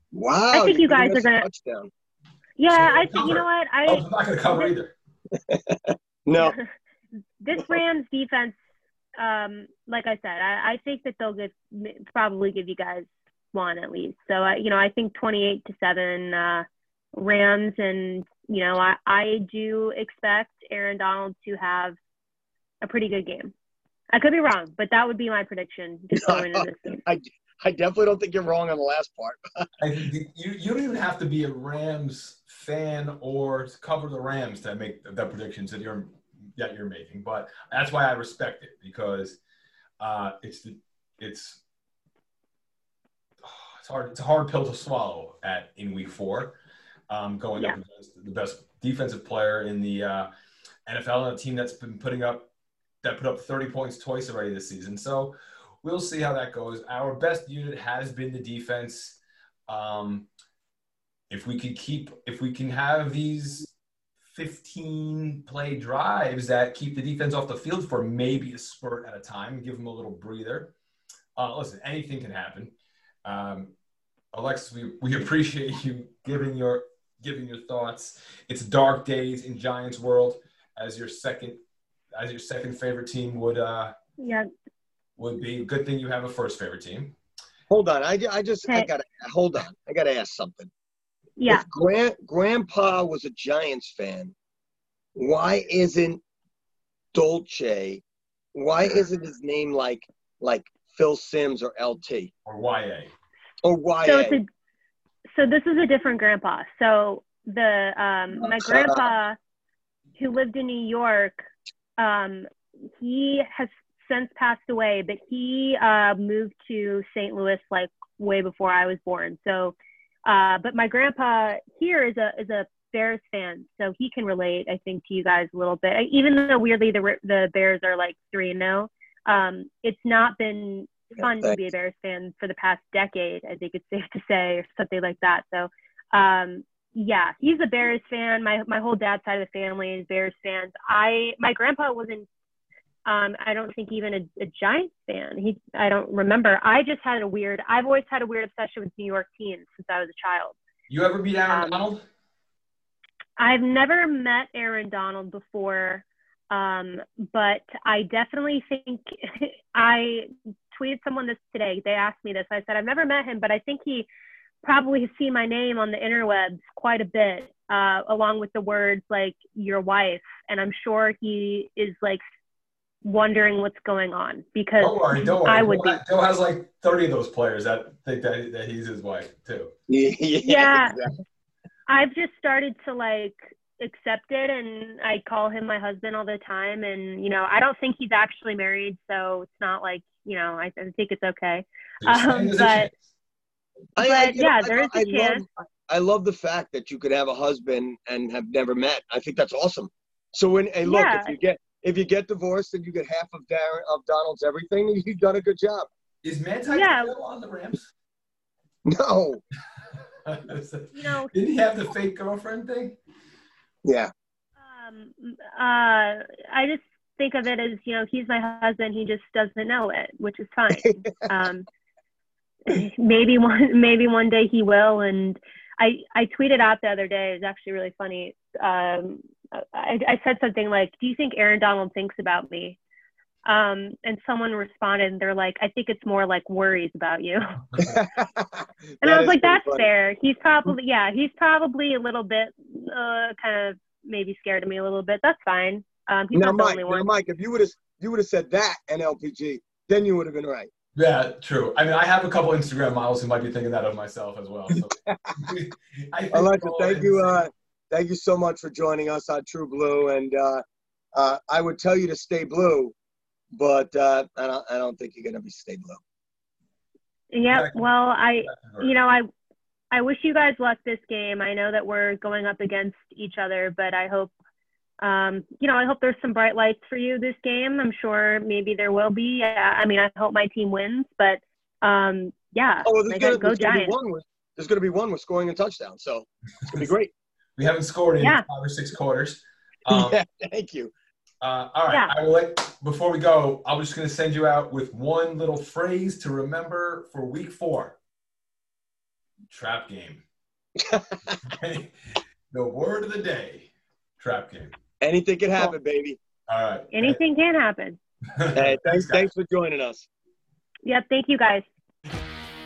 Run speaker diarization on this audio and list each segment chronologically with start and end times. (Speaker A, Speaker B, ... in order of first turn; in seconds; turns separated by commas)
Speaker A: 0.1-1.9, Speaker B: 0.5-1.4, Speaker B: 2.6-4.7, Speaker C: 2.7-4.9, Speaker A: 5.5-6.6, Speaker B: 7.4-8.6, Speaker B: 9.2-21.9, Speaker B: 22.8-23.5, Speaker B: 24.1-27.0, Speaker A: 26.1-29.7, Speaker C: 29.8-39.4, Speaker C: 40.0-41.6, Speaker C: 43.4-46.5, Speaker C: 47.1-50.3, Speaker C: 50.9-52.5, Speaker C: 53.0-60.3, Speaker C: 61.3-63.7, Speaker C: 64.3-70.7, Speaker C: 71.3-72.7, Speaker C: 73.2-73.7, Speaker C: 74.3-81.6, Speaker C: 82.1-83.9, Speaker B: 84.2-84.5, Speaker C: 85.2-87.1, Speaker A: 87.7-90.7, Speaker B: 91.4-91.6, Speaker A: 91.5-94.3, Speaker A: 95.2-96.2, Speaker A: 97.1-98.0, Speaker A: 98.5-102.3, Speaker C: 102.5-103.1, Speaker A: 103.6-104.4, Speaker B: 104.0-104.5, Speaker B: 105.3-109.4, Speaker A: 108.4-109.0, Speaker B: 110.2-111.4, Speaker B: 112.0-112.5, Speaker B: 113.0-142.2, Speaker A: 131.2-131.6, Speaker B: 143.1-150.5, Speaker C: 150.9-152.0, Speaker B: 151.5-151.8, Speaker B: 153.4-164.1, Speaker B: 164.6-172.2, Speaker B: 173.0-176.0, Speaker C: 174.8-179.7, Speaker A: 179.9-181.1, Speaker B: 180.4-180.9, Speaker B: 181.9-192.9, Speaker C: 192.0-192.9, Speaker A: 194.0-205.9, Speaker B: 194.0-195.4, Speaker B: 200.8-201.3, Speaker C: 206.2-207.9, Speaker B: 206.7-207.1, Speaker A: 208.8-209.4, Speaker C: 210.2-213.0, Speaker B: 210.9-211.3, Speaker A: 213.8-214.1, Speaker B: 214.6-221.7, Speaker A: 220.7-221.3, Speaker B: 222.7-232.8, Speaker B: 233.4-237.7, Speaker A: 237.8-239.9, Speaker B: 239.0-247.1, Speaker A: 246.3-250.7, Speaker C: 250.9-257.4, Speaker A: 254.7-255.5, Speaker A: 256.3-260.6, Speaker A: 261.1-262.9, Speaker A: 263.5-266.0, Speaker B: 267.3-269.3, Speaker C: 267.5-267.9, Speaker C: 268.4-268.9, Speaker B: 269.9-274.3, Speaker B: 275.0-283.9, Speaker A: 282.9-287.1, Speaker C: 287.6-290.2, Speaker A: 289.9-290.9, Speaker C: 291.4-298.0, Speaker C: 299.5-300.2, Speaker A: 300.8-301.4, Speaker C: 301.4-304.7, Speaker A: 305.0-306.2, Speaker C: 306.5-307.2, Speaker B: 306.9-308.0, Speaker C: 308.4-309.3, Speaker A: 308.5-310.1, Speaker B: 310.8-311.6